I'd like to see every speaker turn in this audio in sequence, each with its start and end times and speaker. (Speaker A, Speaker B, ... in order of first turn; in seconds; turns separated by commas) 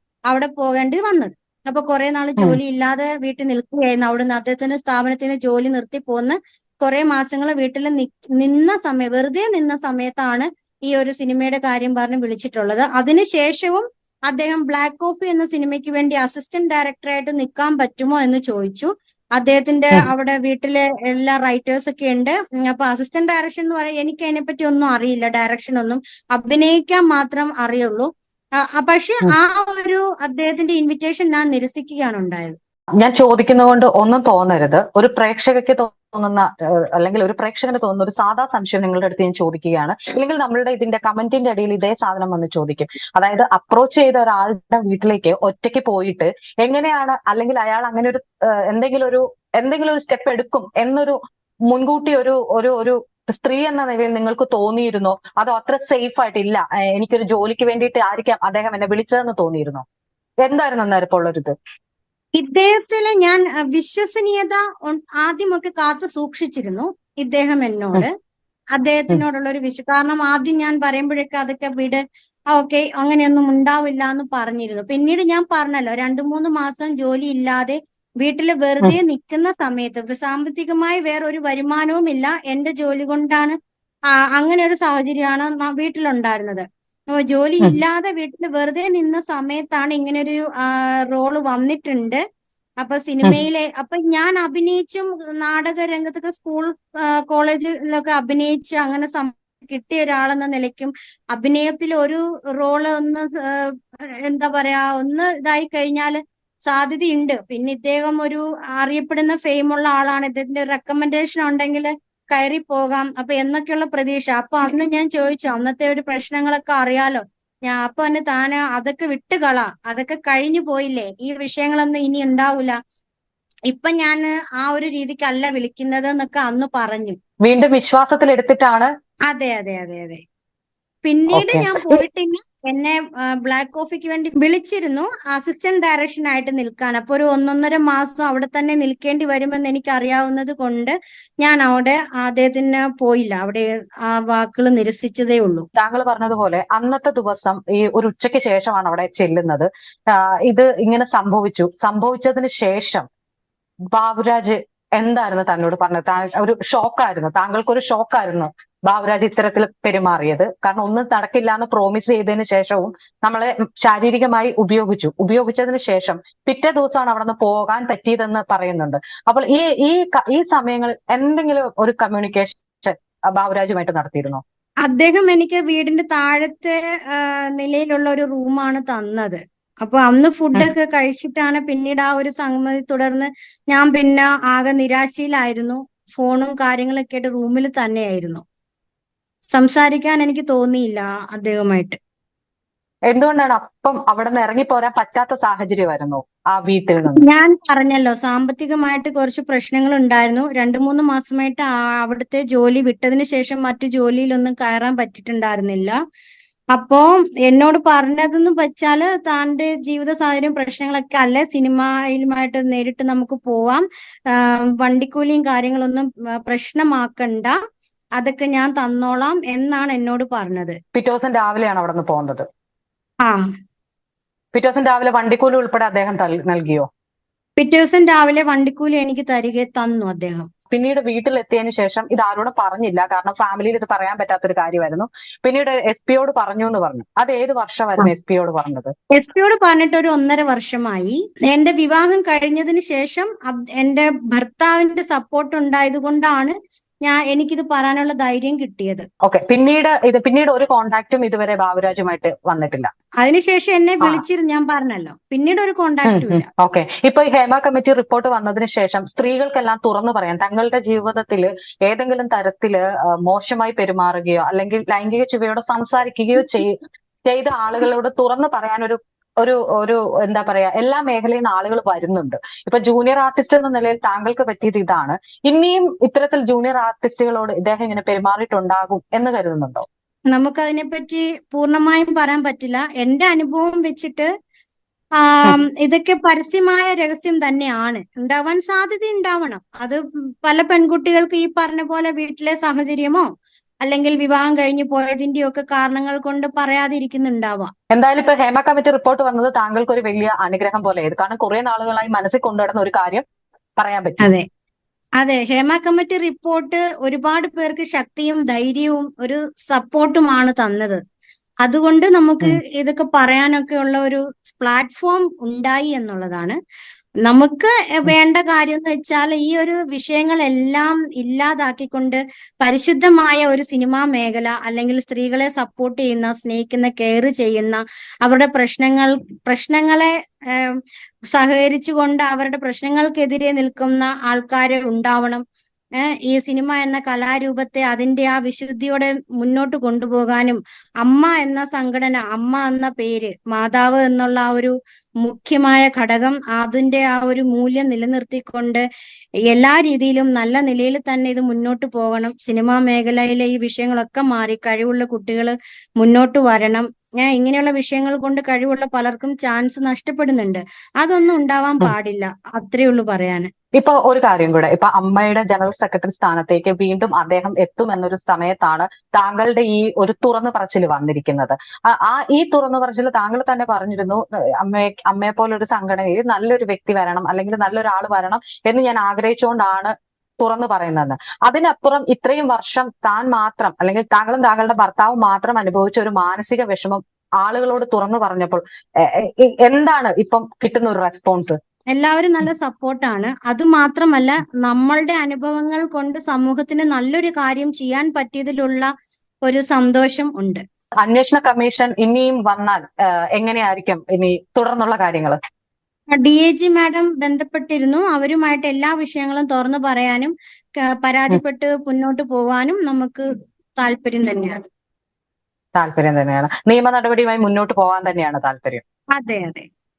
Speaker A: 0.3-28.1, Speaker A: 28.7-32.6, Speaker B: 33.0-51.2, Speaker B: 51.7-59.8, Speaker B: 60.4-61.5, Speaker A: 62.4-68.1, Speaker A: 68.8-72.0, Speaker A: 72.5-83.6, Speaker A: 84.2-92.2, Speaker A: 92.8-122.8, Speaker A: 123.7-127.2, Speaker B: 127.4-128.9, Speaker A: 129.3-130.2, Speaker A: 131.1-145.7, Speaker B: 131.3-132.0, Speaker B: 145.8-153.1, Speaker B: 153.9-174.4, Speaker A: 174.8-188.4, Speaker A: 189.5-192.0, Speaker B: 193.1-197.2, Speaker A: 197.2-206.0, Speaker A: 206.7-217.6, Speaker A: 218.2-220.8, Speaker B: 220.9-222.4, Speaker B: 224.5-226.9, Speaker A: 227.6-230.5, Speaker B: 230.7-238.9, Speaker A: 239.1-249.1, Speaker B: 249.2-252.9, Speaker A: 253.2-256.5, Speaker B: 256.1-266.7, Speaker B: 267.3-279.9, Speaker A: 280.3-284.3, Speaker A: 285.2-293.3, Speaker A: 293.8-297.7, Speaker B: 297.9-303.2, Speaker B: 303.8-304.2, Speaker A: 305.2-311.0, Speaker A: 311.6-316.6, Speaker A: 317.2-330.8, Speaker A: 331.3-335.4, Speaker A: 336.0-348.8, Speaker A: 349.5-363.5, Speaker B: 363.8-391.6, Speaker A: 391.9-398.9, Speaker A: 399.5-400.6, Speaker B: 401.0-405.4, Speaker A: 406.2-410.3, Speaker A: 410.9-413.2, Speaker A: 413.8-414.6, Speaker B: 415.8-418.8, Speaker A: 419.1-419.7